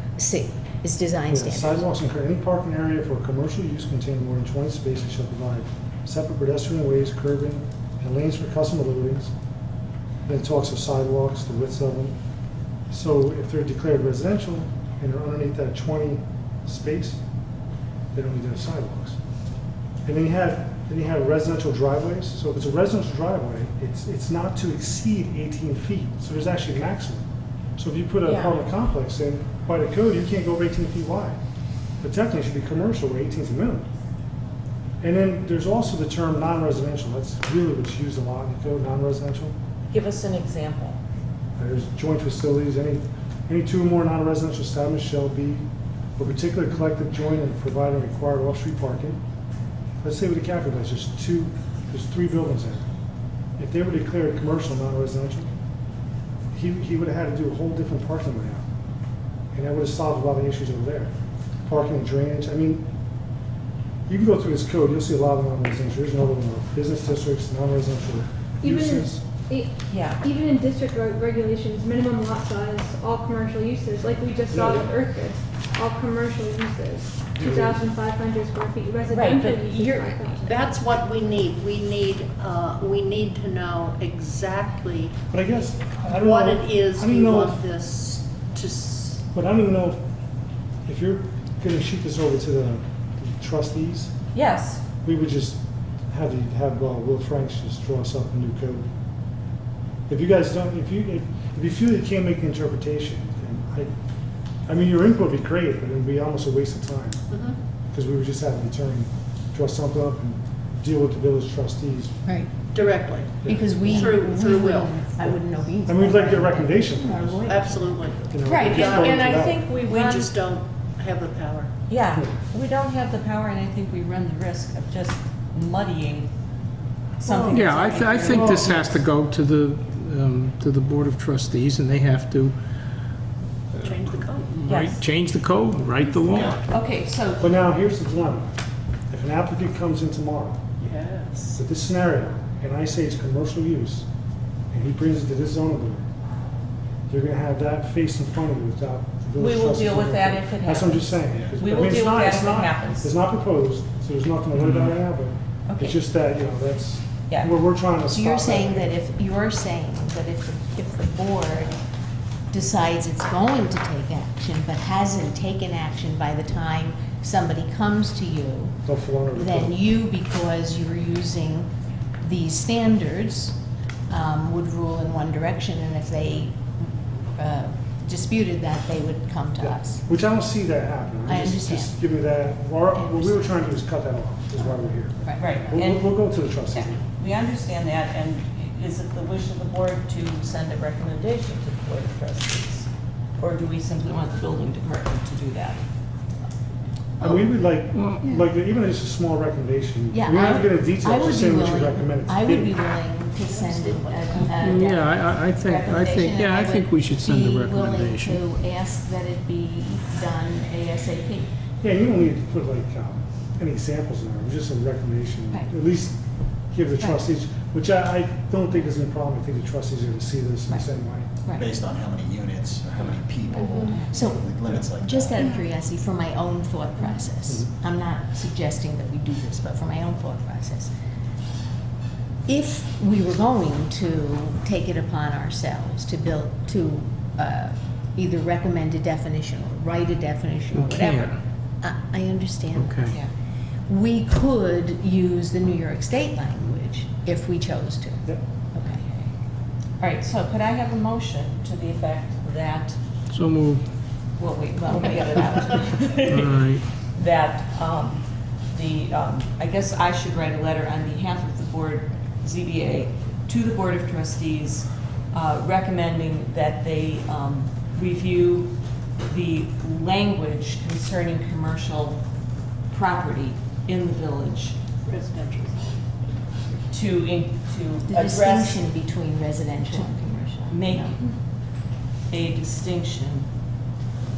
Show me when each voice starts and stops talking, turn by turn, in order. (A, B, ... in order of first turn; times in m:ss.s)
0:00.2-0:01.8 A
0:01.3-0:09.3 B
0:10.2-0:12.2 B
0:12.9-0:17.2 B
0:18.1-0:19.2 B
0:20.0-0:27.2 B
0:27.8-0:31.4 B
0:28.2-0:28.6 C
0:32.0-0:33.9 B
0:35.0-0:39.5 B
0:39.9-0:41.0 C
0:41.6-0:49.2 B
0:50.0-0:52.9 B
0:53.6-0:55.5 B
0:56.5-0:58.6 B
0:59.5-1:01.1 B
1:01.6-1:02.8 B
1:04.1-1:09.2 B
1:08.6-1:20.6 D
1:09.9-1:10.2 C
1:14.5-1:14.9 B
1:17.4-1:17.8 B
1:19.1-1:20.4 C
1:20.4-1:25.1 E
1:25.3-1:27.6 B
1:26.1-1:29.2 E
1:29.3-1:30.0 B
1:30.8-1:34.1 B
1:34.3-1:34.8 C
1:35.0-1:35.6 B
1:36.1-1:38.8 B
1:40.1-1:43.9 B
1:44.7-1:47.2 B
1:47.3-1:47.6 E
1:47.9-1:52.1 B
1:52.7-1:55.0 E
1:53.4-1:53.8 B
1:53.4-1:58.4 A
1:55.8-1:57.6 B
1:57.4-2:01.7 E
1:58.3-1:59.6 B
1:58.4-2:00.3 C
2:01.9-2:06.3 C
2:02.1-2:02.4 B
2:07.2-2:08.8 C
2:07.2-2:08.9 B
2:07.5-2:12.6 F
2:13.7-2:16.6 F
2:13.8-2:15.0 E
2:14.6-2:15.0 C
2:16.3-2:16.6 G
2:16.7-2:17.5 C
2:17.4-2:18.6 B
2:19.1-2:20.6 B
2:20.8-2:21.6 E
2:21.5-2:24.0 B
2:24.7-2:26.1 B
2:27.1-2:38.9 B
2:29.4-2:33.2 C
2:34.6-2:34.9 F
2:35.7-2:36.0 C
2:38.1-2:41.7 A
2:42.5-2:48.8 A
2:48.8-2:49.8 B
2:49.3-2:51.7 A
2:52.2-2:53.6 A
2:54.1-3:00.0 A
2:59.6-3:07.0 B
3:01.2-3:02.0 A
3:02.9-3:03.5 A
3:04.6-3:05.7 A
3:05.4-3:15.9 C
3:17.2-3:22.7 B
3:17.9-3:18.2 F
3:18.2-3:18.5 D
3:20.1-3:31.5 A
3:23.6-3:24.2 E
3:24.5-3:28.4 F
3:31.8-3:36.2 B
3:36.7-3:41.3 B
3:41.4-3:41.7 A
3:41.5-3:45.4 G
3:43.0-3:44.4 C
3:43.5-3:50.9 A
3:45.4-3:45.6 D
3:52.4-4:03.2 A
4:00.7-4:01.4 F
4:02.8-4:03.1 F
4:03.9-4:09.0 A
4:08.8-4:09.3 C
4:10.0-4:13.0 C
4:13.3-4:13.8 F
4:14.4-4:32.2 C
4:14.8-4:15.6 A
4:16.2-4:16.8 F
4:32.9-4:34.8 C
4:35.0-4:36.0 E
4:36.9-4:38.8 C
4:38.1-4:41.2 A
4:40.7-4:41.3 C
4:42.3-4:43.5 C